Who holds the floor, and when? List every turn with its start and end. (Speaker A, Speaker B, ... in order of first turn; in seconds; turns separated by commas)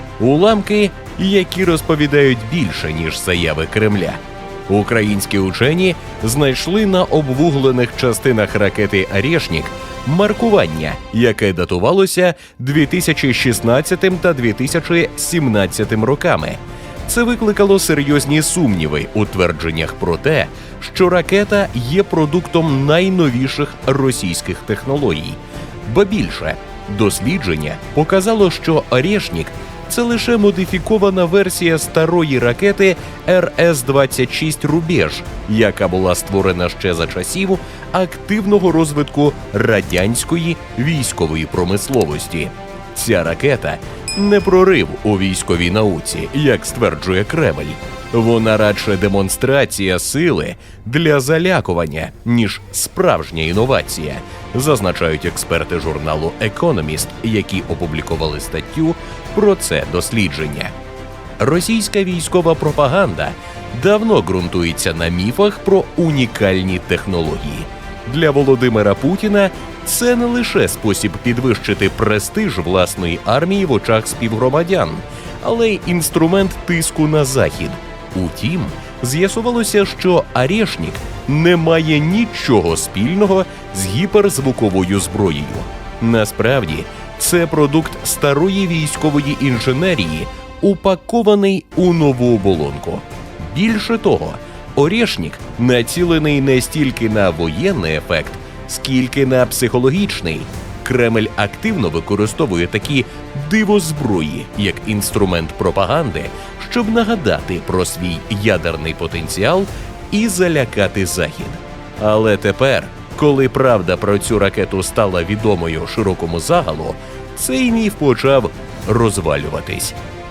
Speaker A: 0.2-60.7, Speaker A: 61.4-120.0